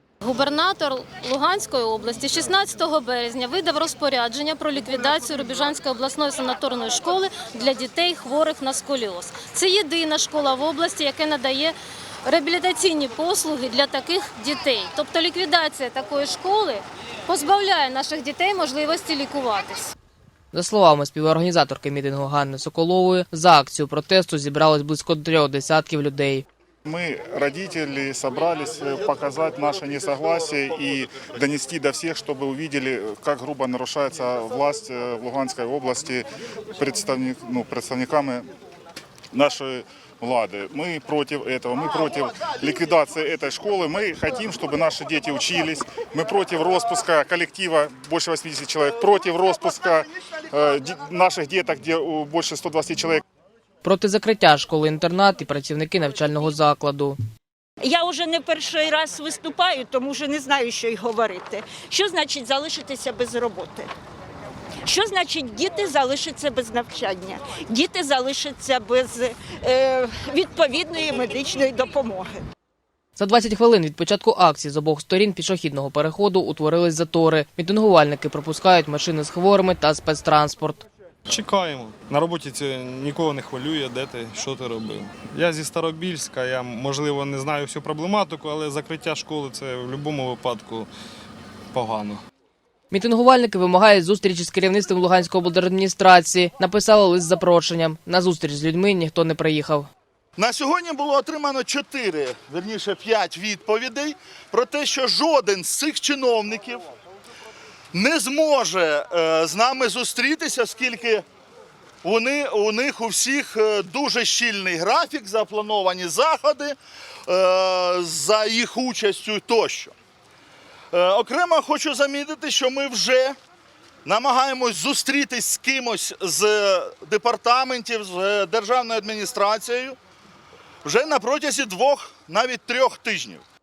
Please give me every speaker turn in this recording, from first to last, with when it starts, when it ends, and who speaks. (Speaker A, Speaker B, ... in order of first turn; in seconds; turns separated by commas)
Speaker A: 0.2-11.7, Speaker A: 12.2-19.9, Speaker B: 20.5-26.4, Speaker C: 26.9-36.2, Speaker C: 36.8-38.5, Speaker C: 39.3-53.2, Speaker B: 53.8-57.2, Speaker D: 57.8-63.9, Speaker D: 64.9-72.4, Speaker B: 73.2-80.8, Speaker E: 81.3-90.9, Speaker E: 91.7-92.2, Speaker B: 92.9-99.9, Speaker F: 100.4-106.8, Speaker F: 107.9-111.2, Speaker F: 112.0-119.9, Speaker F: 120.9-123.4, Speaker F: 124.0-130.0, Speaker F: 130.8-133.4